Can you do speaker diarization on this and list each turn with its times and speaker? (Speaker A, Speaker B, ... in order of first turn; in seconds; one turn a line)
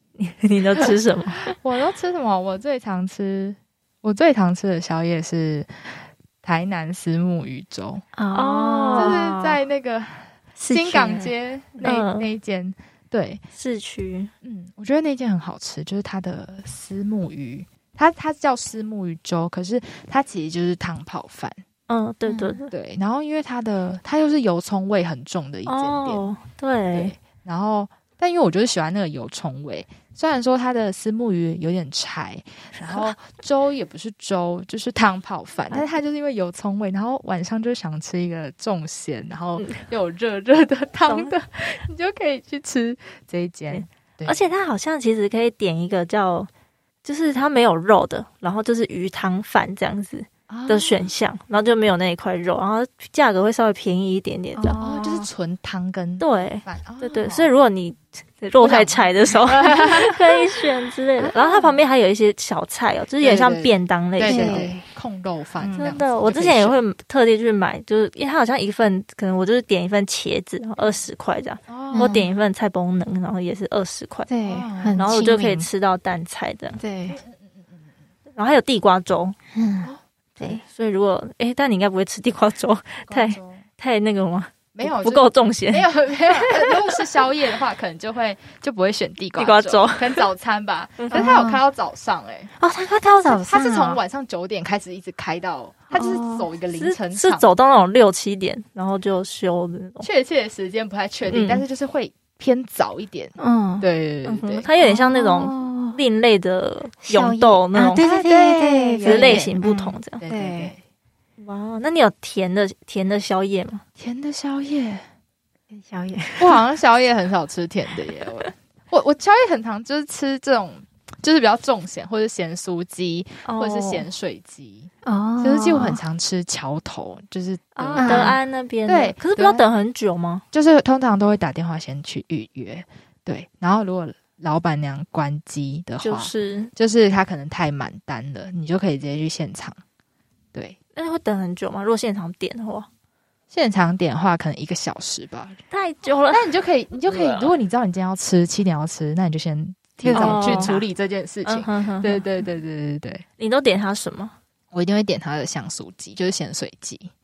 Speaker A: 0.2-1.5
Speaker B: 1.5-8.0
Speaker C: 8.2-9.6
Speaker A: 8.3-9.2
Speaker B: 8.9-13.4
Speaker C: 10.6-11.3
Speaker A: 11.8-12.3
Speaker A: 13.5-14.3
Speaker B: 14.4-21.6
Speaker A: 21.9-22.7
Speaker C: 22.3-22.6
Speaker B: 22.7-26.2
Speaker A: 25.6-27.1
Speaker B: 26.9-44.4
Speaker A: 41.0-41.3
Speaker A: 43.7-46.5
Speaker A: 47.0-54.8
Speaker B: 50.5-51.0
Speaker C: 54.5-55.3
Speaker B: 54.8-57.5
Speaker A: 56.2-64.7
Speaker B: 58.6-60.1
Speaker B: 61.2-61.8
Speaker B: 63.2-66.8
Speaker C: 64.2-64.8
Speaker C: 65.6-65.9
Speaker A: 65.7-74.3
Speaker B: 71.7-72.2
Speaker C: 71.9-72.3
Speaker C: 74.3-75.5
Speaker B: 74.4-75.6
Speaker A: 75.0-76.8
Speaker C: 76.8-77.2
Speaker B: 77.1-77.8
Speaker A: 78.3-79.4
Speaker C: 79.5-80.6
Speaker A: 80.4-86.8
Speaker B: 83.0-83.6
Speaker B: 84.7-92.5
Speaker A: 89.4-90.3
Speaker A: 91.0-91.3
Speaker C: 91.1-91.6
Speaker C: 92.6-94.0
Speaker B: 93.2-97.5
Speaker C: 95.9-96.5
Speaker A: 96.7-100.1
Speaker B: 100.0-104.7
Speaker A: 101.3-101.6
Speaker C: 103.4-103.9
Speaker A: 104.2-108.0
Speaker C: 104.8-106.0
Speaker C: 107.0-110.7
Speaker B: 108.0-109.6
Speaker A: 109.0-110.2
Speaker B: 110.2-110.8
Speaker A: 111.4-113.8
Speaker B: 114.0-115.0
Speaker C: 115.7-116.6
Speaker B: 116.4-128.3
Speaker A: 123.4-124.1
Speaker C: 125.0-126.0
Speaker A: 127.8-130.4
Speaker C: 128.0-128.3
Speaker B: 128.9-129.6
Speaker B: 130.5-139.8
Speaker A: 136.0-136.7
Speaker A: 140.9-142.9
Speaker B: 143.5-145.6
Speaker A: 145.7-146.5
Speaker B: 146.3-153.2
Speaker A: 147.1-147.5
Speaker C: 150.0-150.8
Speaker A: 150.1-150.8
Speaker A: 151.4-152.2
Speaker A: 153.4-154.3
Speaker B: 154.7-157.1